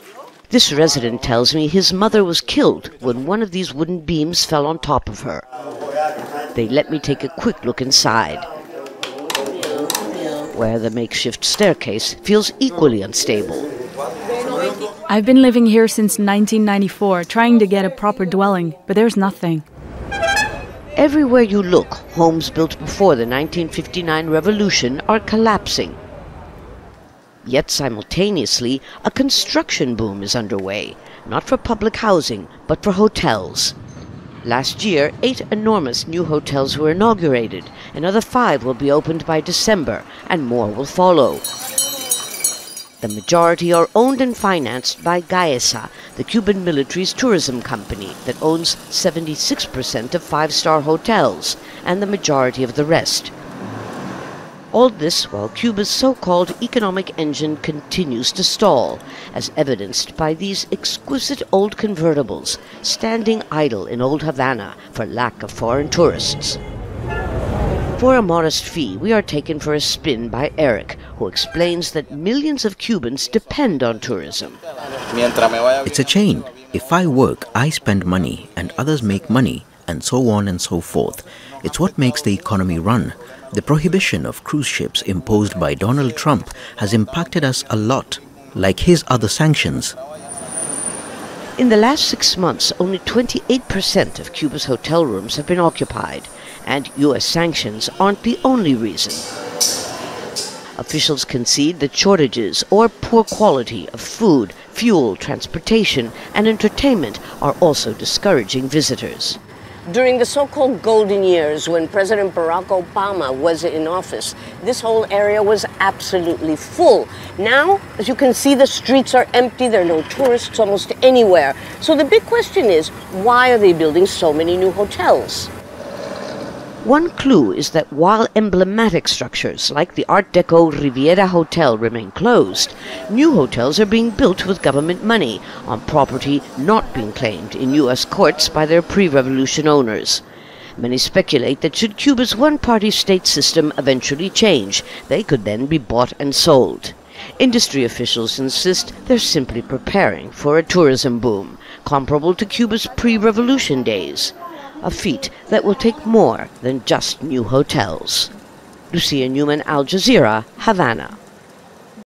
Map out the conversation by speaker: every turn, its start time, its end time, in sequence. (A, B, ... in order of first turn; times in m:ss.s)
0:00.5-0:05.4 A
0:06.5-0:08.5 A
0:10.5-0:13.7 A
0:15.1-0:19.6 B
0:21.0-0:26.0 A
0:27.4-0:33.7 A
0:34.4-0:41.4 A
0:43.0-0:53.3 A
0:54.7-1:06.6 A
1:08.0-1:14.6 A
1:15.8-1:30.0 C
1:31.6-1:39.3 A
1:40.8-1:49.4 A
1:49.8-2:05.5 D
2:06.8-2:20.2 A
2:20.8-2:38.3 A
2:38.9-2:41.2 A